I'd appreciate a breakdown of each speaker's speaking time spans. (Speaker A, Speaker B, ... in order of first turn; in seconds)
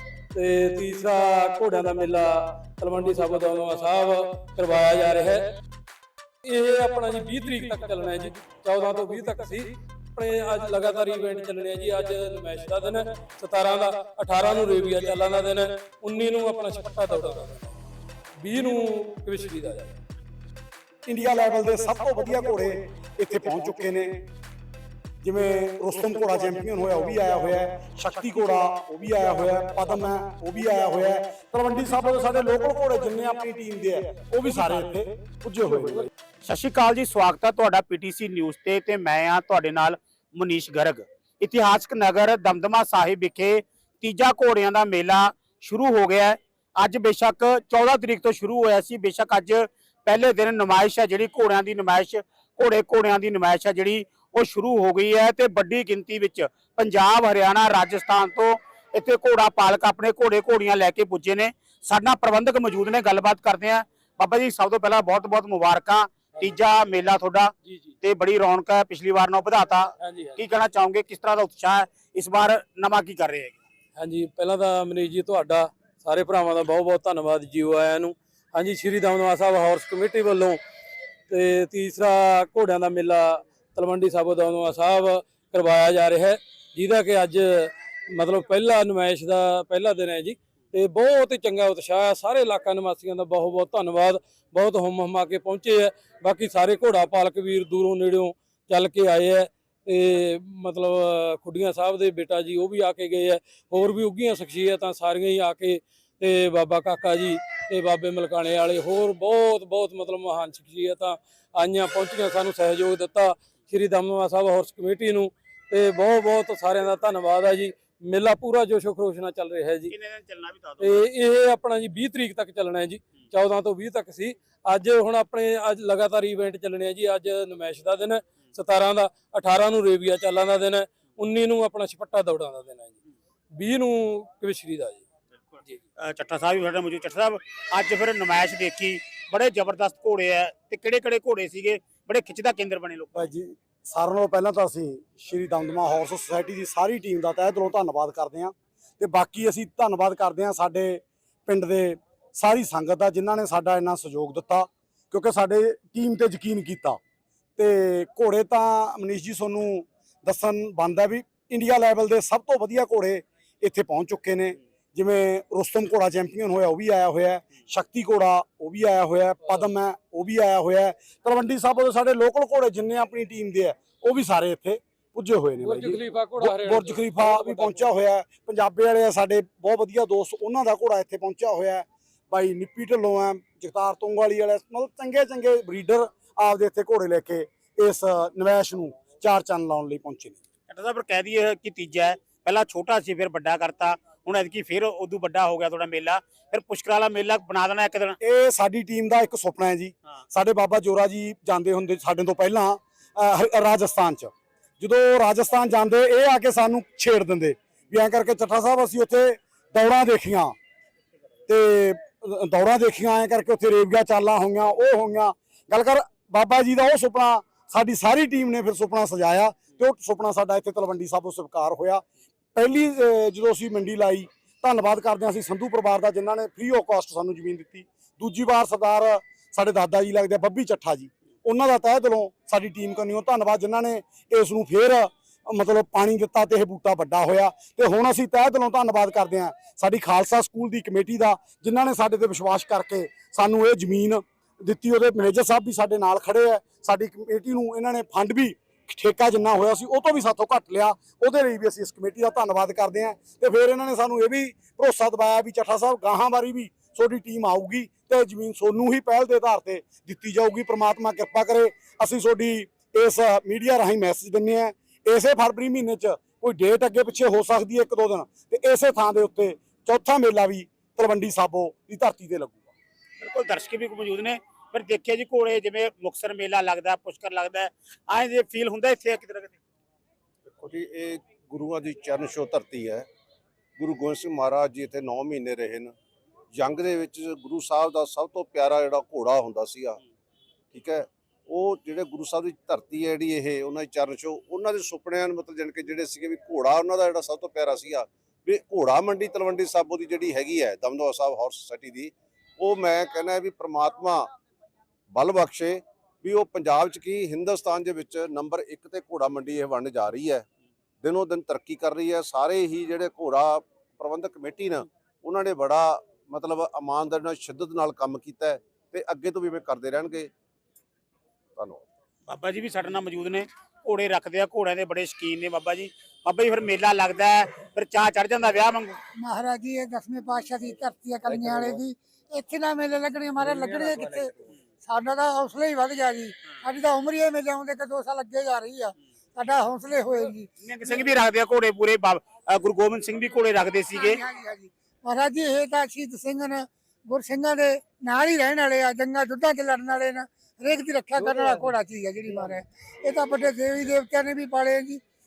Speaker A: 0.3-5.5, 6.4-17.7, 18.4-19.9, 67.7-67.9, 70.0-70.4, 74.0-80.6, 81.3-119.9, 120.8-133.0, 133.5-135.0, 169.4-169.7, 175.6-177.8
Speaker B: 21.1-24.3, 25.2-36.1, 143.1-157.0, 157.6-190.4, 198.2-210.6, 211.5-222.0, 222.5-272.7
Speaker C: 36.4-73.6, 119.9-121.0, 136.0-143.3, 190.7-198.2, 273.2-279.6, 322.2-329.0, 340.6-344.2
Speaker D: 280.5-283.1, 283.8-285.9, 286.5-290.0, 290.7-304.3, 305.1-310.5, 311.0-320.3, 321.6-321.8, 331.5-331.8
Speaker E: 329.2-340.9, 343.9-355.0